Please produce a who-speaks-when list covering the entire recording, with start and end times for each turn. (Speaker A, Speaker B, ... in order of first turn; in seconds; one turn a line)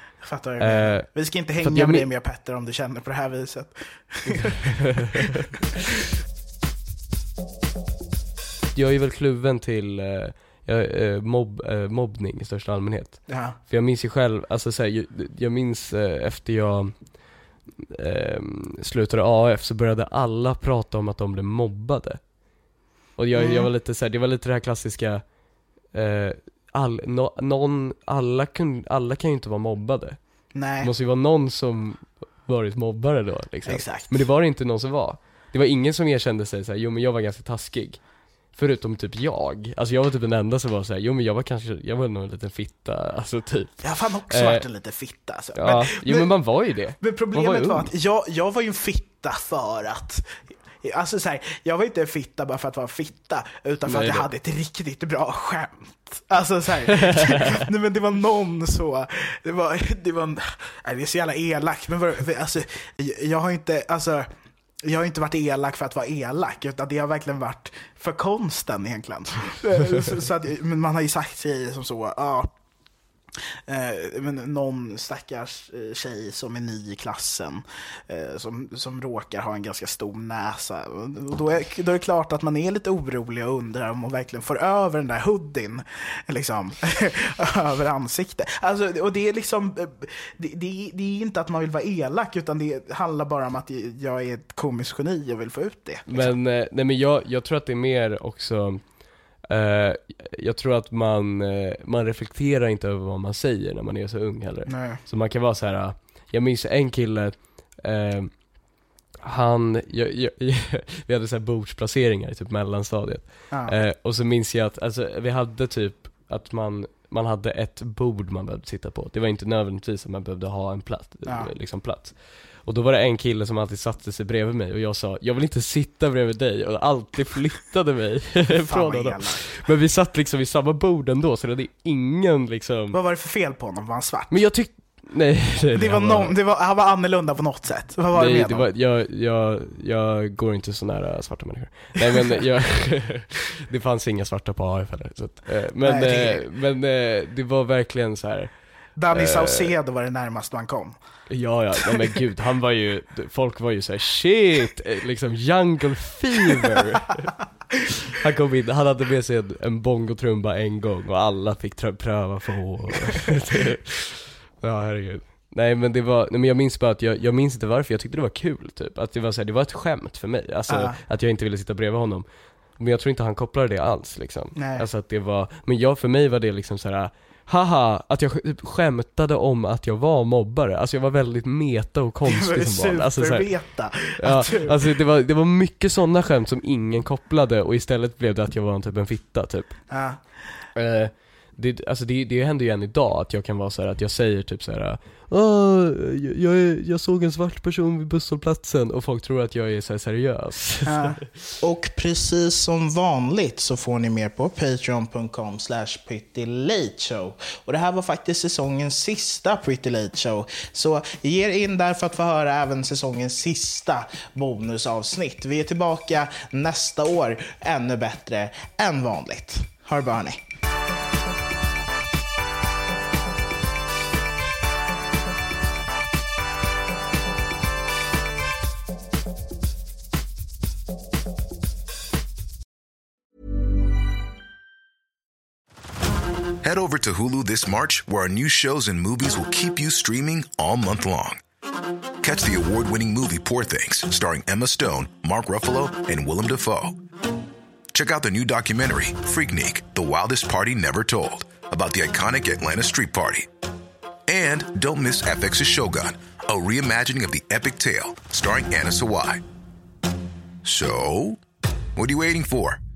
Speaker A: 0.2-5.3
Speaker B: 0.6-2.1
Speaker B: 4.6-5.2
Speaker B: 8.7-16.9
Speaker A: 13.3-13.6
Speaker B: 17.8-22.2
Speaker B: 23.2-25.2
Speaker A: 23.4-23.7
Speaker B: 25.9-30.2
Speaker A: 30.6-30.9
Speaker B: 30.8-38.0
Speaker A: 33.6-34.2
Speaker B: 38.5-44.6
Speaker A: 43.8-46.3
Speaker B: 45.6-47.9
Speaker A: 47.0-64.3
Speaker B: 53.9-54.3
Speaker B: 56.9-57.6
Speaker A: 64.8-72.5
Speaker A: 73.4-96.4
Speaker B: 96.1-98.8
Speaker B: 99.5-108.3
Speaker A: 104.7-105.0
Speaker B: 109.2-133.0
Speaker A: 121.3-121.5
Speaker A: 128.6-129.4
Speaker A: 132.9-134.4
Speaker B: 134.3-136.4
Speaker A: 135.8-138.7
Speaker B: 138.1-148.5
Speaker A: 145.8-146.4
Speaker A: 149.0-151.0
Speaker B: 149.1-149.7
Speaker B: 151.3-172.3
Speaker A: 151.8-152.1
Speaker A: 170.7-171.0
Speaker B: 172.8-183.5
Speaker A: 174.6-174.9
Speaker A: 182.2-184.9
Speaker B: 184.2-189.7
Speaker A: 189.9-190.2
Speaker B: 190.8-201.2
Speaker A: 200.9-220.4
Speaker C: 236.6-241.4
Speaker C: 242.2-247.0
Speaker C: 247.9-253.5
Speaker C: 254.3-259.4
Speaker C: 260.6-261.4
Speaker C: 261.9-262.8